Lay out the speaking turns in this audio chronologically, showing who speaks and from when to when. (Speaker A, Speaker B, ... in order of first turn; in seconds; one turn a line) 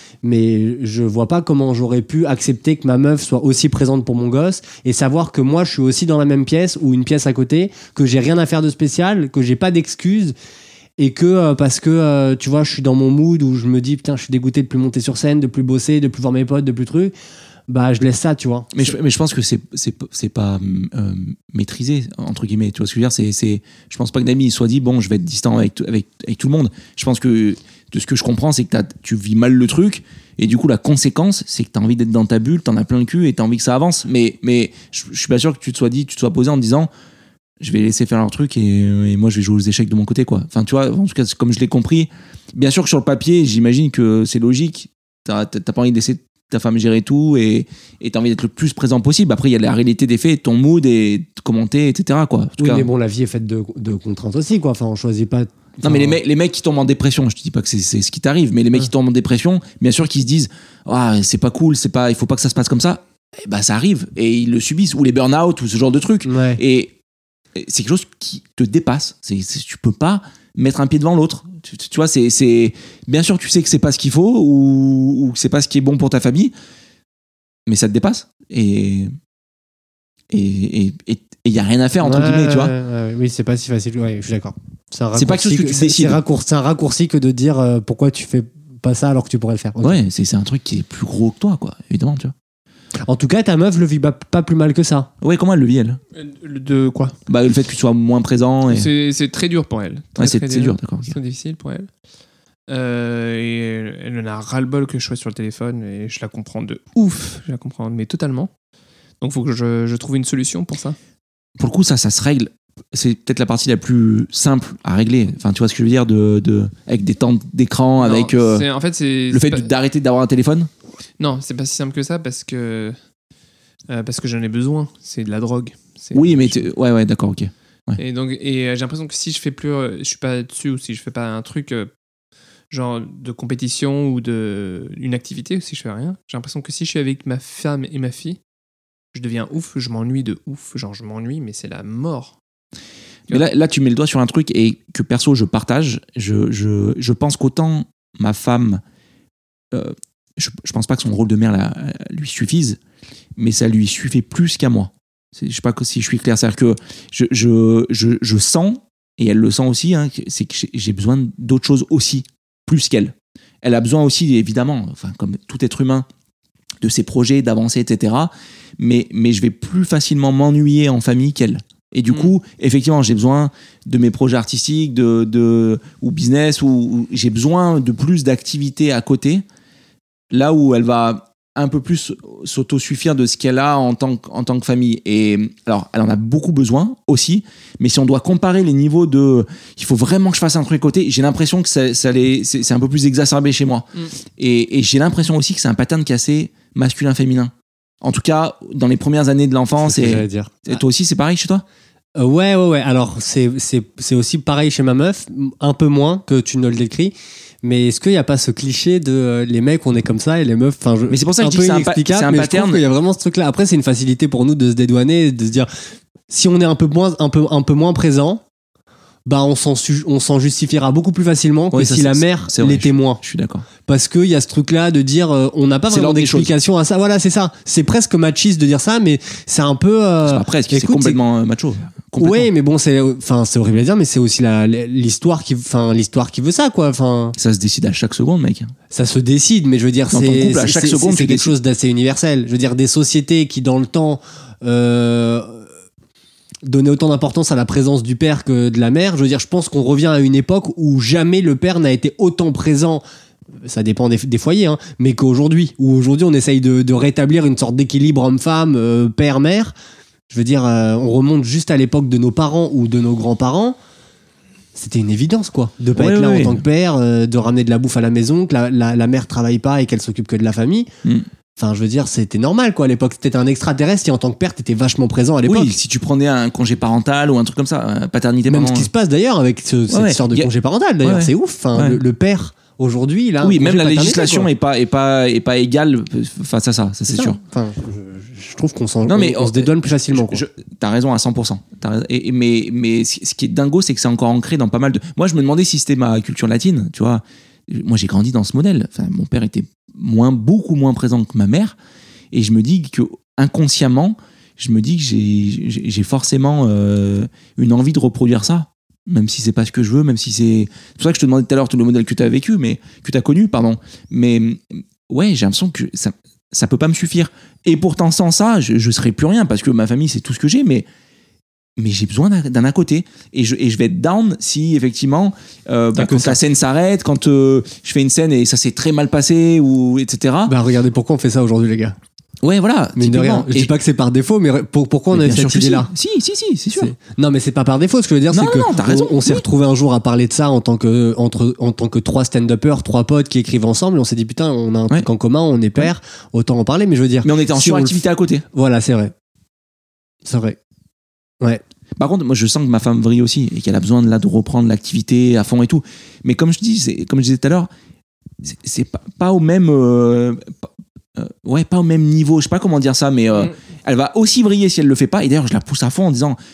Speaker A: 0.2-10.3
Speaker A: 11.0-17.1
Speaker A: 17.7-18.8
Speaker B: 18.7-36.9
Speaker B: 37.6-52.9
Speaker A: 52.6-56.2
Speaker B: 55.8-66.9
Speaker A: 66.2-66.6
Speaker B: 67.5-76.5
Speaker B: 77.7-79.1
Speaker B: 80.3-82.7
Speaker A: 82.0-90.0
Speaker B: 85.1-86.2
Speaker B: 89.8-92.3
Speaker A: 93.0-95.1
Speaker B: 95.2-96.0
Speaker C: 96.2-97.2
Speaker B: 97.3-98.9
Speaker C: 98.7-101.9
Speaker B: 100.2-101.1
Speaker C: 102.7-108.5
Speaker C: 109.2-111.0
Speaker B: 111.6-118.7
Speaker C: 118.0-119.7
Speaker B: 119.3-120.7
Speaker C: 121.2-123.0
Speaker C: 123.9-126.7
Speaker B: 126.1-128.0
Speaker C: 128.0-131.9
Speaker C: 132.7-138.4
Speaker C: 139.1-142.4
Speaker B: 143.3-148.8
Speaker B: 149.7-152.8
Speaker B: 153.4-166.1
Speaker B: 166.8-179.4
Speaker B: 180.3-201.6
Speaker A: 199.8-200.8
Speaker A: 202.2-215.7
Speaker B: 211.1-212.8
Speaker A: 216.3-218.4
Speaker A: 219.2-223.2
Speaker B: 221.7-223.7
Speaker A: 223.8-231.2
Speaker B: 225.9-226.5
Speaker B: 230.2-232.5
Speaker A: 232.2-237.4
Speaker B: 237.4-238.7
Speaker A: 238.9-245.7
Speaker B: 240.1-241.5
Speaker A: 246.6-253.0
Speaker A: 253.6-259.7
Speaker A: 260.3-263.8
Speaker A: 264.7-270.9
Speaker B: 265.9-266.6
Speaker A: 271.6-275.8
Speaker B: 275.4-278.9
Speaker A: 278.5-284.5
Speaker B: 279.9-280.5
Speaker B: 281.0-282.0
Speaker B: 283.4-287.4
Speaker A: 287.1-290.4
Speaker B: 289.1-301.8
Speaker B: 302.3-320.9
Speaker B: 321.8-330.5
Speaker A: 325.9-326.4
Speaker A: 330.4-332.0
Speaker B: 332.4-333.7
Speaker A: 332.9-335.9
Speaker B: 335.1-336.9
Speaker A: 336.7-349.1
Speaker B: 338.3-339.4
Speaker B: 347.2-348.4
Speaker A: 350.2-350.6
Speaker B: 352.0-357.7
Speaker B: 358.4-360.5
Speaker B: 361.1-366.4